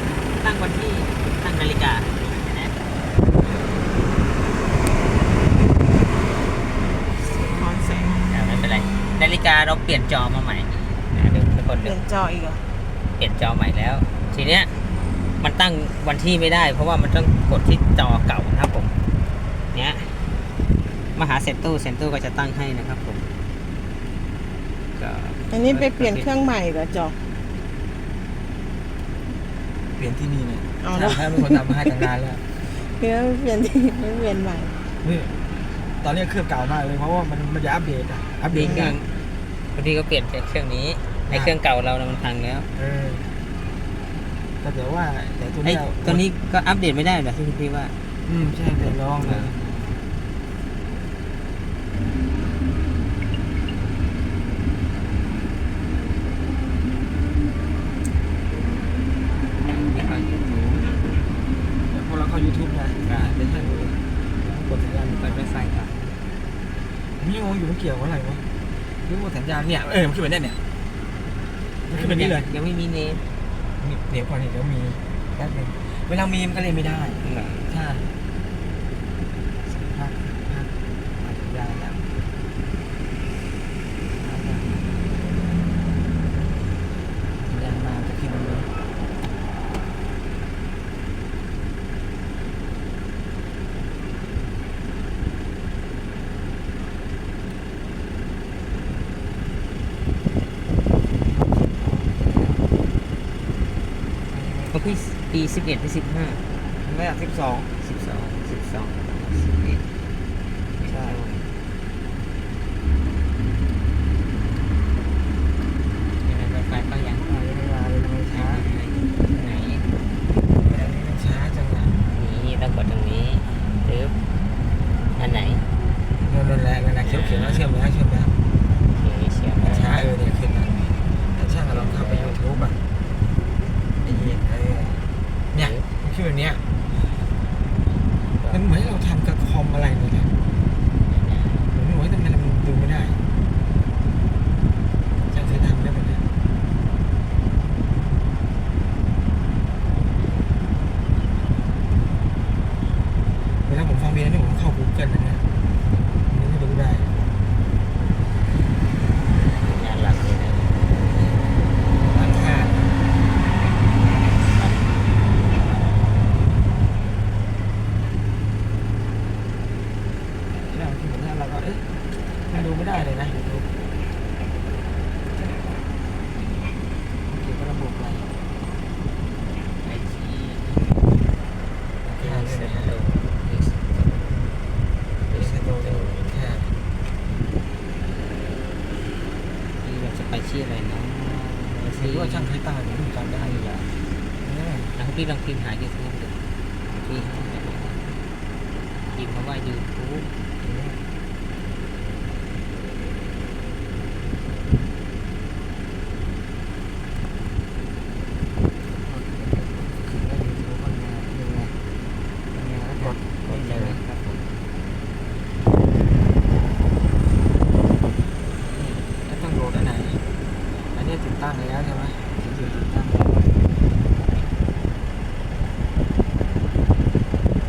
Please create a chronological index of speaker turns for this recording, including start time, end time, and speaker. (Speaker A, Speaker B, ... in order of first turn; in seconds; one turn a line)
Speaker A: 0.3-2.9
Speaker B: 7.1-8.2
Speaker A: 8.3-12.0
Speaker B: 11.8-12.6
Speaker A: 13.2-14.7
Speaker A: 15.4-18.9
Speaker A: 19.7-20.3
Speaker A: 21.1-23.3
Speaker A: 24.9-26.4
Speaker B: 25.5-27.2
Speaker C: 29.9-32.5
Speaker B: 30.8-32.1
Speaker B: 32.6-34.8
Speaker C: 35.0-35.4
Speaker C: 35.9-39.0
Speaker A: 38.5-39.1
Speaker B: 38.6-39.0
Speaker A: 39.7-42.7
Speaker C: 41.3-41.5
Speaker C: 42.7-43.3
Speaker C: 44.6-46.2
Speaker A: 45.6-47.9
Speaker C: 48.2-49.9
Speaker A: 49.2-49.5
Speaker A: 59.6-61.2
Speaker C: 61.9-65.4
Speaker A: 63.0-63.4
Speaker A: 65.0-66.1
Speaker C: 67.1-68.4
Speaker C: 69.0-70.6
Speaker C: 71.9-72.5
Speaker A: 71.9-73.2
Speaker C: 73.8-78.1
Speaker A: 77.2-77.6
Speaker C: 79.7-82.1
Speaker C: 84.1-84.9
Speaker C: 87.4-88.7
Speaker C: 101.2-102.6
Speaker C: 104.3-105.0
Speaker A: 104.7-106.4
Speaker C: 106.8-107.7
Speaker A: 107.8-109.8
Speaker A: 110.8-111.5
Speaker C: 110.9-111.2
Speaker A: 116.2-117.3
Speaker C: 117.2-118.7
Speaker A: 118.3-119.9
Speaker C: 120.6-121.9
Speaker A: 122.1-124.2
Speaker A: 125.1-125.7
Speaker C: 126.2-128.3
Speaker A: 127.0-127.6
Speaker A: 128.9-130.1
Speaker C: 129.6-130.8
Speaker C: 131.3-132.8
Speaker A: 131.7-132.4
Speaker C: 134.0-136.6
Speaker A: 135.6-135.9
Speaker A: 138.2-138.7
Speaker C: 138.5-140.3
Speaker A: 141.0-141.7
Speaker C: 141.7-143.2
Speaker C: 145.3-146.2
Speaker A: 145.3-145.6
Speaker C: 153.6-155.4
Speaker C: 156.3-157.1
Speaker A: 159.4-160.7
Speaker C: 161.1-161.4
Speaker C: 162.0-162.8
Speaker A: 164.0-164.8
Speaker C: 170.5-171.8
Speaker C: 172.4-173.4
Speaker A: 173.3-173.6
Speaker A: 175.3-175.8
Speaker C: 177.3-178.4
Speaker A: 179.8-181.0
Speaker C: 182.0-182.9
Speaker A: 182.2-184.2
Speaker A: 185.3-186.3
Speaker C: 185.3-186.7
Speaker A: 189.8-192.5
Speaker C: 191.8-193.7
Speaker A: 193.4-193.9
Speaker C: 194.4-194.9
Speaker A: 194.9-196.3
Speaker A: 196.9-198.2
Speaker C: 197.2-197.4
Speaker A: 199.1-200.3
Speaker C: 200.6-201.0
Speaker C: 208.9-211.7
Speaker C: 212.5-214.0
Speaker A: 212.9-214.4
Speaker A: 218.7-219.0
Speaker C: 218.8-220.2
Speaker C: 220.9-223.4